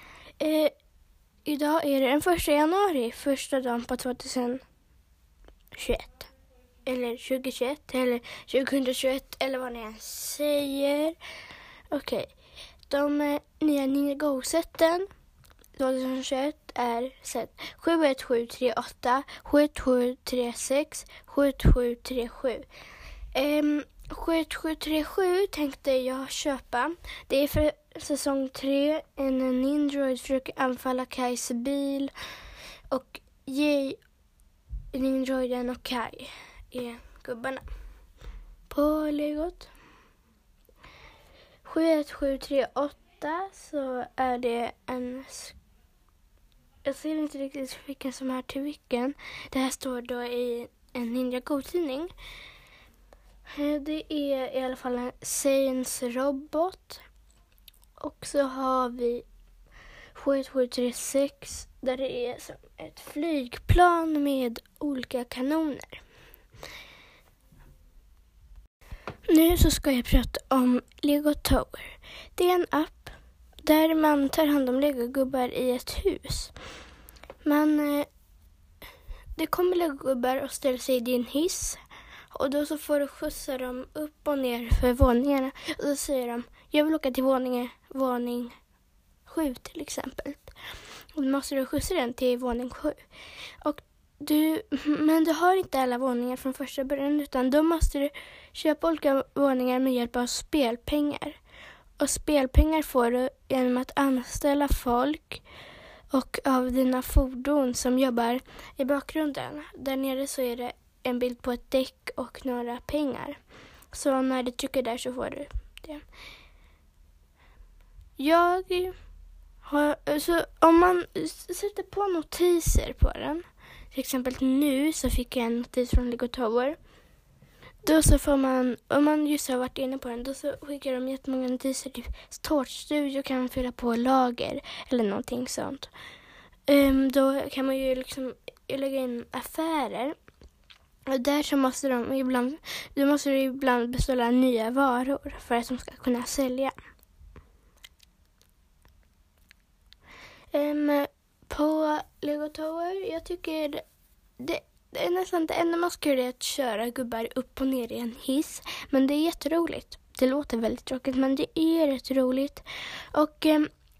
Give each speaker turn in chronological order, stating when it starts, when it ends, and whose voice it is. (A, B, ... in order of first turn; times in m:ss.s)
0:00.4-0:00.7 A
0:01.4-0:04.6 A
0:05.7-0:06.3 A
0:06.9-0:11.2 A
0:11.9-0:12.3 A
0:12.9-0:15.1 A
0:15.8-0:22.7 A
0:23.3-0:32.1 A
0:32.9-0:34.0 A
0:34.9-0:37.6 A
0:38.7-0:39.7 A
0:41.6-0:45.6 A
0:46.8-0:52.1 A
0:53.5-0:57.0 A
0:58.0-0:59.2 A
1:00.2-1:06.0 A
1:09.3-1:16.5 A
1:17.4-1:18.1 A
1:19.4-1:21.8 A
1:22.3-1:28.6 A
1:29.2-1:30.5 A
1:31.1-1:33.0 A
1:33.6-1:41.4 A
1:42.0-1:45.4 A
1:46.1-1:53.4 A
1:53.9-1:56.0 A
1:58.2-1:59.0 A
1:59.6-2:06.8 A
2:07.8-2:15.9 A
2:16.7-2:20.2 A
2:21.1-2:26.7 A
2:30.5-2:33.8 A
2:34.4-2:43.7 A